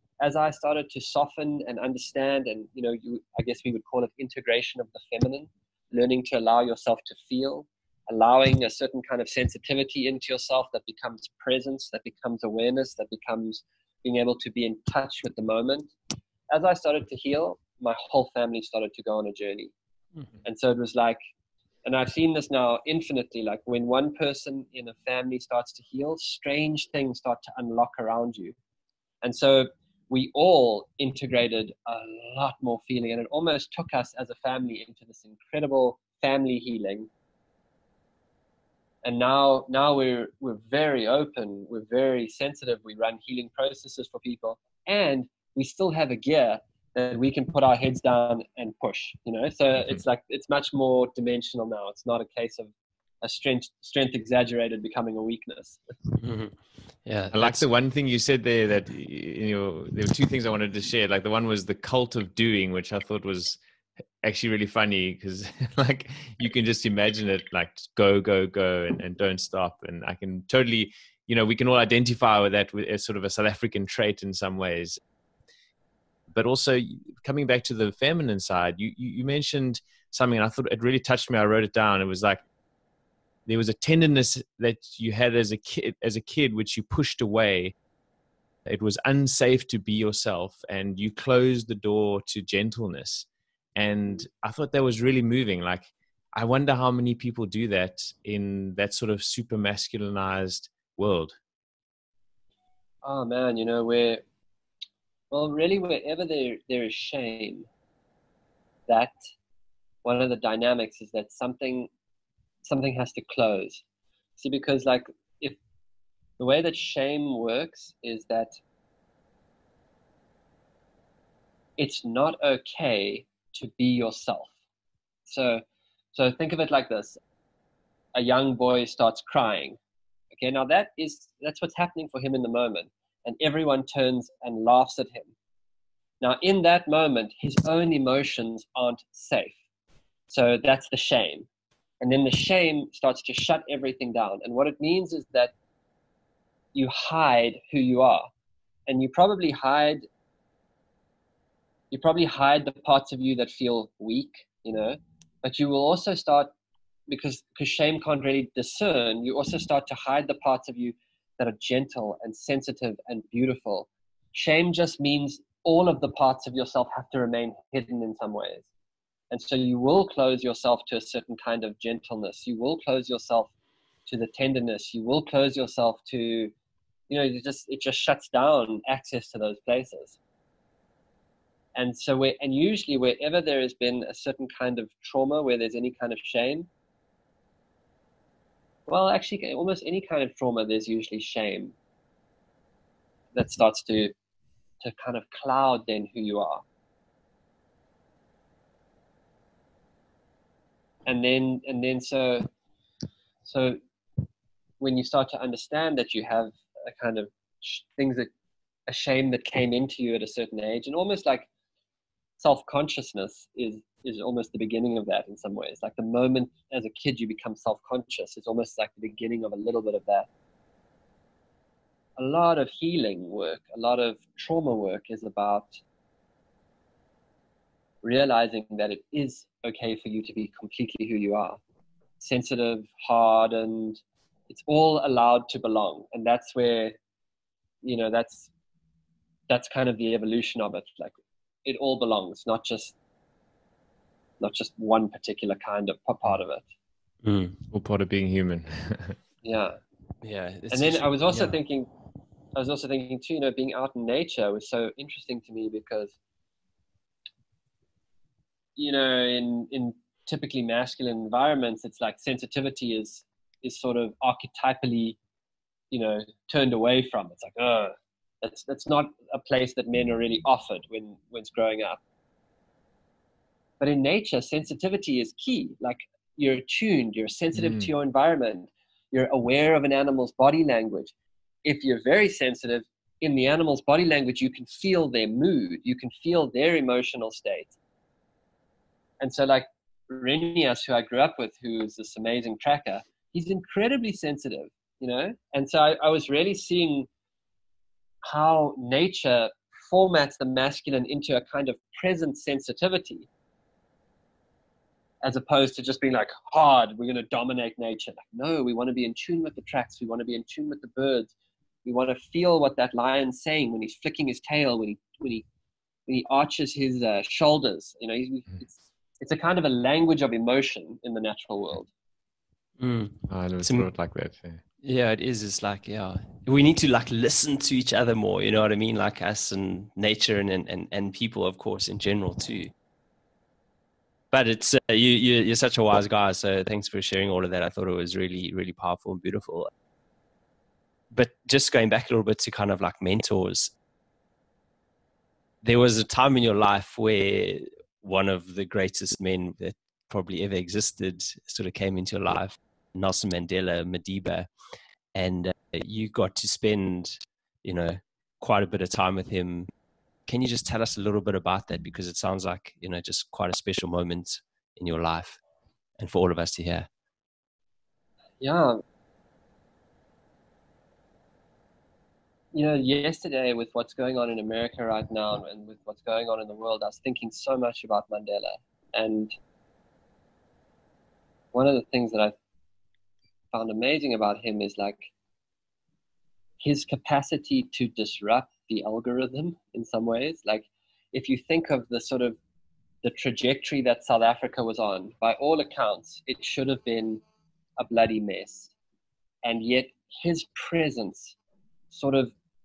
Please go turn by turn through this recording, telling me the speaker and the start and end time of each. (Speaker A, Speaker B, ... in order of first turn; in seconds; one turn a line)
Speaker A: 0.2-15.9
Speaker A: 16.5-19.7
Speaker A: 20.4-21.2
Speaker A: 21.8-28.6
Speaker A: 29.2-37.1
Speaker A: 39.0-52.7
Speaker A: 53.2-55.8
Speaker B: 56.2-57.6
Speaker C: 57.3-63.6
Speaker C: 64.2-75.0
Speaker C: 76.3-82.4
Speaker C: 83.5-87.7
Speaker C: 88.7-101.3
Speaker A: 103.0-104.2
Speaker A: 105.3-107.7
Speaker A: 108.9-109.2
Speaker A: 110.0-111.9
Speaker A: 112.6-113.8
Speaker A: 114.4-115.6
Speaker A: 116.4-118.6
Speaker A: 121.8-124.5
Speaker A: 125.2-125.6
Speaker A: 126.1-127.2
Speaker A: 128.1-129.8
Speaker A: 130.3-135.3
Speaker A: 136.2-139.6
Speaker A: 140.3-141.5
Speaker A: 142.0-145.5
Speaker A: 146.7-148.3
Speaker A: 148.9-150.0
Speaker A: 151.9-156.5
Speaker A: 157.1-168.7
Speaker A: 169.3-173.5
Speaker A: 174.1-176.5
Speaker A: 177.1-180.2
Speaker A: 181.8-186.7
Speaker A: 188.9-191.7
Speaker A: 193.3-194.1
Speaker A: 194.8-196.6
Speaker A: 201.1-202.5
Speaker A: 203.4-203.8
Speaker A: 204.8-208.3
Speaker A: 208.9-211.5
Speaker A: 212.4-220.3
Speaker A: 222.2-225.8
Speaker A: 228.0-231.6
Speaker A: 232.2-237.0
Speaker A: 237.8-238.5
Speaker A: 239.5-242.9
Speaker A: 244.4-246.7
Speaker B: 247.2-247.6
Speaker C: 247.7-249.2
Speaker A: 249.4-249.8
Speaker B: 250.2-251.6
Speaker A: 250.7-251.9
Speaker A: 252.5-256.1
Speaker A: 258.8-265.2
Speaker A: 265.9-272.0
Speaker A: 273.8-281.1
Speaker C: 277.6-277.9
Speaker A: 281.6-287.7
Speaker A: 289.2-297.1
Speaker A: 298.2-303.3
Speaker A: 305.2-311.3
Speaker A: 311.8-315.4
Speaker A: 316.1-321.9
Speaker B: 322.8-323.9
Speaker C: 323.3-324.6
Speaker B: 324.8-332.7
Speaker B: 334.3-339.7
Speaker B: 341.1-343.7
Speaker B: 345.6-354.5
Speaker B: 355.1-359.7
Speaker B: 360.3-365.4
Speaker B: 366.0-366.9
Speaker A: 368.4-368.8
Speaker A: 372.5-379.3
Speaker A: 381.5-382.4
Speaker A: 383.5-385.1
Speaker A: 386.6-392.4
Speaker A: 393.0-397.2
Speaker A: 397.8-398.7
Speaker A: 399.4-401.4
Speaker A: 401.9-402.3